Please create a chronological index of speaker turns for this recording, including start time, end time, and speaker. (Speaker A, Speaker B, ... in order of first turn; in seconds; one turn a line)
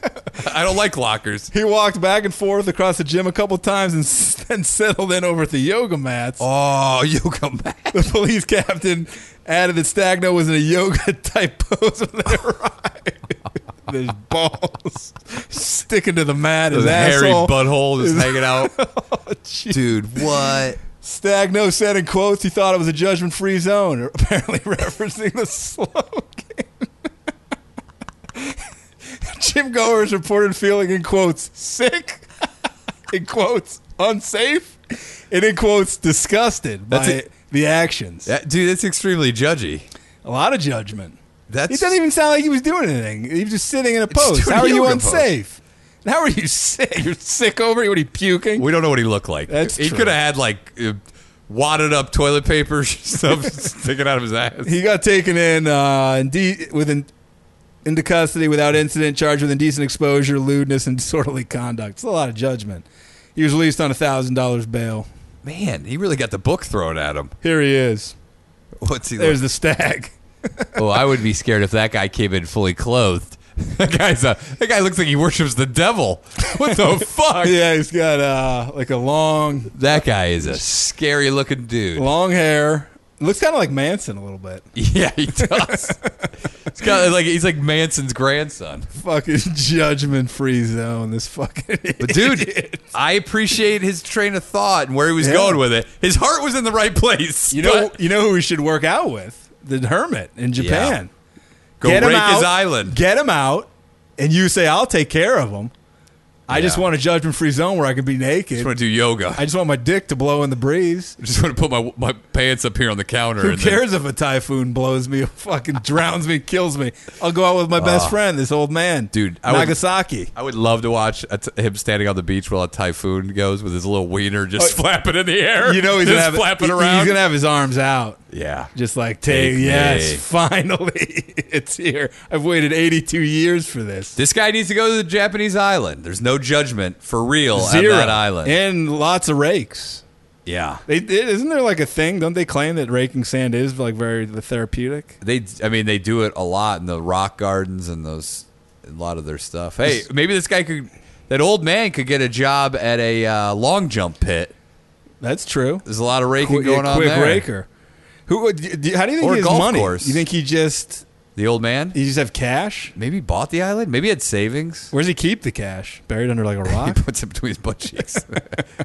Speaker A: 0.3-1.5
Speaker B: 1.5-6.4
Speaker A: 6.4-8.0
Speaker B: 7.9-26.9
Speaker A: 16.7-18.7
Speaker A: 19.7-20.8
Speaker B: 28.3-32.3
Speaker B: 33.1-38.3
Speaker A: 36.9-37.2
Speaker A: 38.2-39.9
Speaker B: 40.2-48.7
Speaker A: 41.5-42.0
Speaker A: 44.1-45.3
Speaker A: 48.5-54.7
Speaker B: 49.5-50.2
Speaker B: 54.6-57.1
Speaker B: 57.8-65.1
Speaker A: 65.4-67.3
Speaker B: 67.4-68.1
Speaker A: 68.8-69.4
Speaker B: 69.2-70.8
Speaker A: 70.8-77.6
Speaker B: 76.7-79.8
Speaker A: 79.7-82.1
Speaker B: 81.9-84.7
Speaker A: 84.7-86.0
Speaker B: 85.3-86.3
Speaker A: 86.7-88.9
Speaker B: 88.9-92.8
Speaker A: 92.0-97.9
Speaker B: 95.2-95.6
Speaker B: 97.5-101.1
Speaker A: 100.5-101.0
Speaker A: 101.8-103.0
Speaker B: 101.8-105.7
Speaker B: 106.5-108.7
Speaker A: 106.5-106.8
Speaker A: 108.5-109.4
Speaker B: 109.3-111.2
Speaker A: 111.2-113.8
Speaker B: 113.4-120.3
Speaker A: 117.8-118.2
Speaker A: 119.1-119.8
Speaker A: 120.3-127.2
Speaker B: 125.6-128.2
Speaker A: 128.3-128.7
Speaker B: 128.7-134.2
Speaker A: 129.2-130.2
Speaker A: 134.2-138.6
Speaker B: 137.5-140.0
Speaker A: 140.4-140.8
Speaker B: 140.9-145.2
Speaker A: 145.2-154.5
Speaker B: 155.2-155.8
Speaker A: 155.8-157.5
Speaker B: 156.4-157.7
Speaker B: 158.3-161.0
Speaker A: 159.2-160.2
Speaker A: 161.3-161.9
Speaker B: 161.9-162.9
Speaker A: 162.9-164.9
Speaker B: 164.9-167.0
Speaker A: 166.7-168.6